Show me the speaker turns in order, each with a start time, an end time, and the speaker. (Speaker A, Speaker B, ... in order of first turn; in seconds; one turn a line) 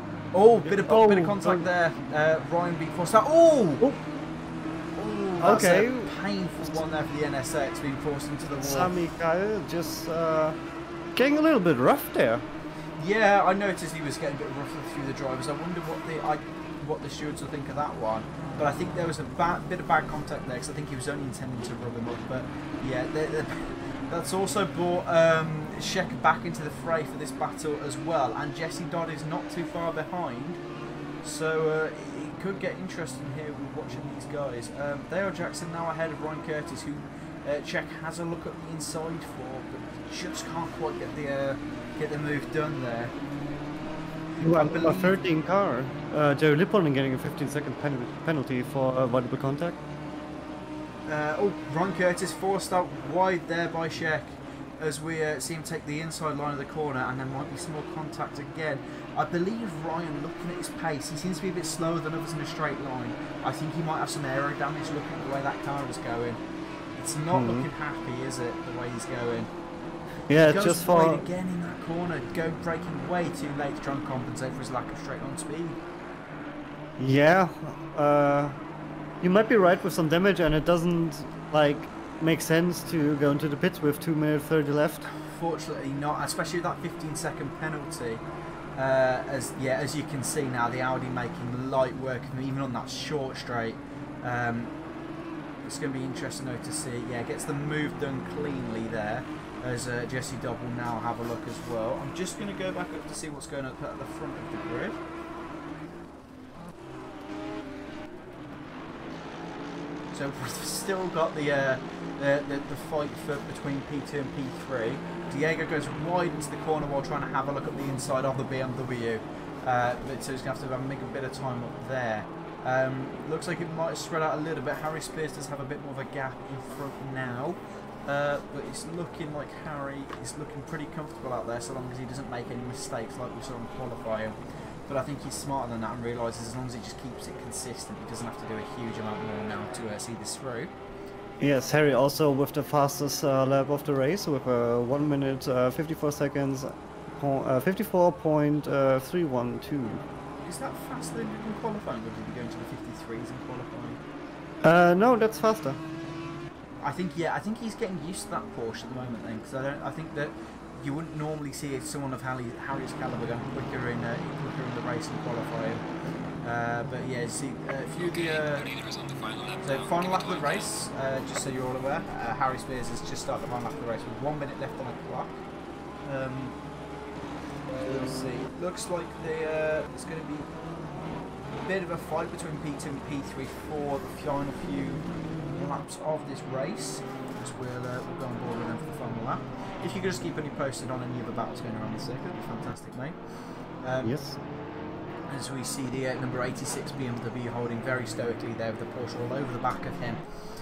Speaker A: 0.3-3.9
Speaker B: 0.6-1.7
Speaker A: 5.0-8.9
Speaker B: 5.4-6.1
Speaker B: 8.6-10.6
Speaker B: 11.2-12.4
Speaker A: 13.0-30.6
Speaker A: 31.2-43.1
Speaker A: 44.4-45.2
Speaker B: 44.4-49.8
Speaker A: 51.1-66.4
Speaker A: 67.0-69.5
Speaker B: 67.3-67.7
Speaker B: 70.3-71.2
Speaker A: 70.3-75.8
Speaker B: 77.0-78.6
Speaker B: 79.2-85.1
Speaker A: 85.1-88.2
Speaker A: 88.8-94.7
Speaker A: 95.6-105.0
Speaker A: 110.1-140.7
Speaker B: 141.4-150.0
Speaker A: 150.4-154.0
Speaker B: 154.6-155.8
Speaker A: 156.8-165.8
Speaker A: 166.4-168.7
Speaker C: 168.0-170.7
Speaker A: 169.6-175.4
Speaker A: 176.1-176.6
Speaker A: 177.7-180.5
Speaker A: 181.6-193.2
Speaker A: 193.8-194.1
Speaker B: 194.0-194.4
Speaker A: 195.3-200.2